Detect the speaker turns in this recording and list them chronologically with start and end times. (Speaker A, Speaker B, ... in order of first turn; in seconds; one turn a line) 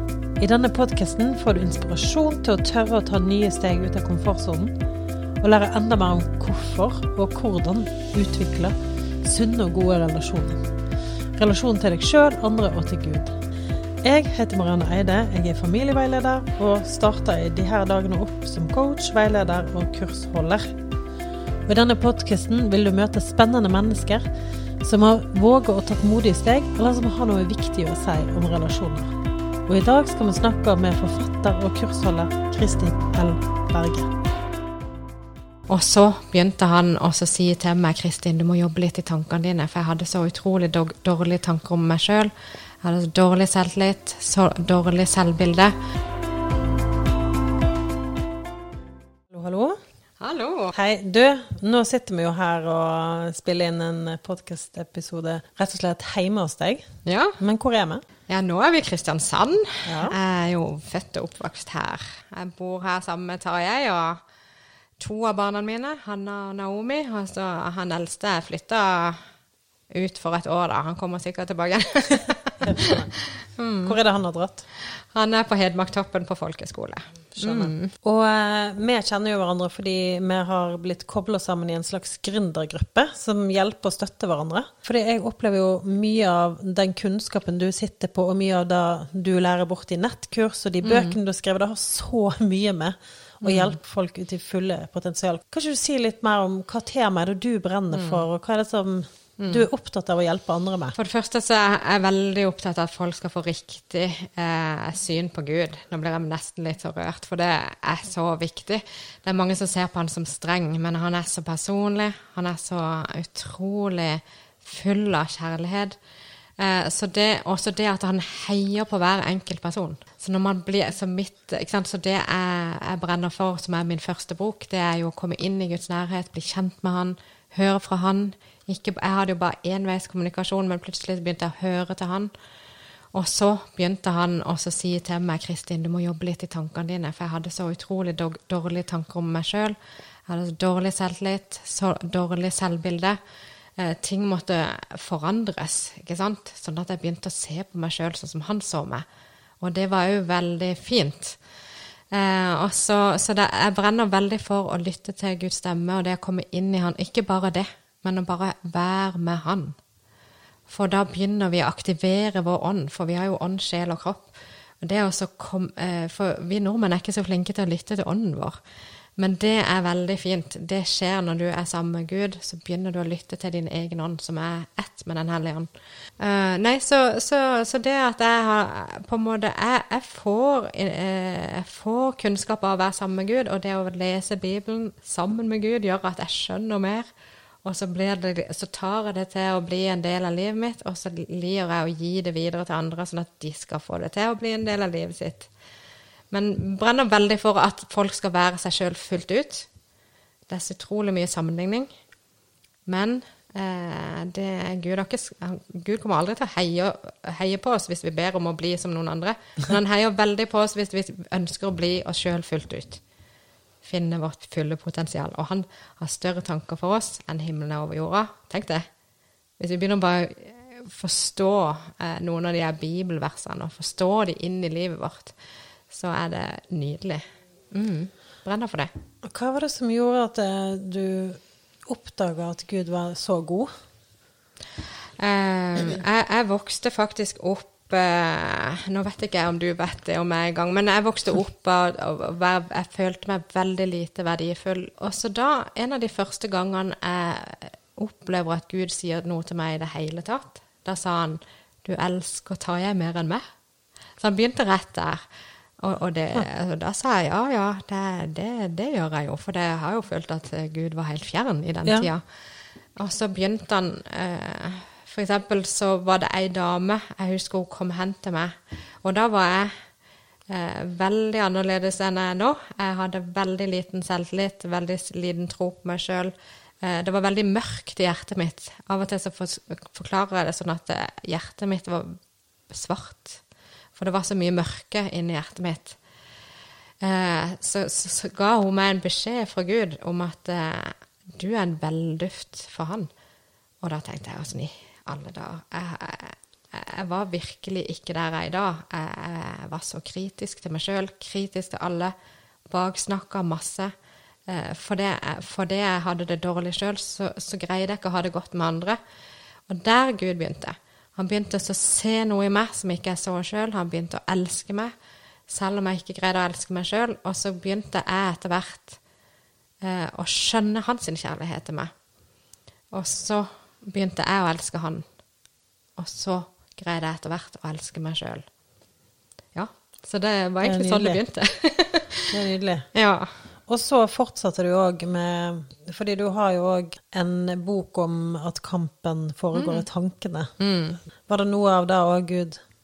Speaker A: 0.4-4.7
Speaker A: 5.4-10.7
Speaker A: 11.3-13.3
Speaker A: 14.0-20.8
Speaker A: 21.6-24.3
Speaker A: 24.8-29.1
Speaker A: 29.6-34.1
Speaker B: 35.7-42.3
Speaker B: 42.8-45.7
Speaker A: 49.3-49.8
Speaker B: 50.2-50.7
Speaker A: 50.7-56.9
Speaker B: 57.0-57.4
Speaker A: 57.4-58.0
Speaker B: 58.3-64.2
Speaker A: 59.9-60.1
Speaker B: 65.0-69.2
Speaker B: 69.9-72.9
Speaker A: 72.6-73.1
Speaker B: 73.5-74.0
Speaker A: 73.8-74.6
Speaker B: 75.1-77.9
Speaker A: 77.4-100.9
Speaker B: 90.8-91.1
Speaker B: 93.4-93.8
Speaker B: 97.9-98.2
Speaker B: 99.4-99.7
Speaker B: 101.0-116.0
Speaker B: 116.6-132.3
Speaker B: 133.1-139.7
Speaker B: 140.3-143.2
Speaker B: 143.8-149.0
Speaker B: 149.6-151.4
Speaker B: 152.1-159.8
Speaker B: 160.7-168.6
Speaker B: 169.2-187.1
Speaker B: 187.6-195.5
Speaker B: 196.3-199.7
Speaker B: 200.5-201.9
Speaker B: 202.8-213.0
Speaker B: 213.8-218.8
Speaker B: 219.6-225.3
Speaker B: 225.9-228.9
Speaker A: 229.2-233.7
Speaker B: 235.2-253.4
Speaker B: 254.2-255.2
Speaker B: 255.8-262.2
Speaker A: 261.8-262.1
Speaker B: 262.9-269.9
Speaker B: 270.5-282.2
Speaker B: 282.7-283.4
Speaker B: 283.9-286.0
Speaker B: 287.0-293.1
Speaker B: 293.8-302.1
Speaker B: 302.7-303.9
Speaker B: 304.5-309.0
Speaker B: 309.7-314.9
Speaker B: 315.5-319.0
Speaker B: 319.8-321.9
Speaker B: 322.9-325.1
Speaker B: 326.0-328.4
Speaker B: 329.5-332.3
Speaker A: 330.6-331.2
Speaker A: 332.3-332.9
Speaker B: 332.9-333.3
Speaker A: 333.7-340.5
Speaker B: 339.5-339.8
Speaker B: 340.6-341.0
Speaker A: 341.2-342.6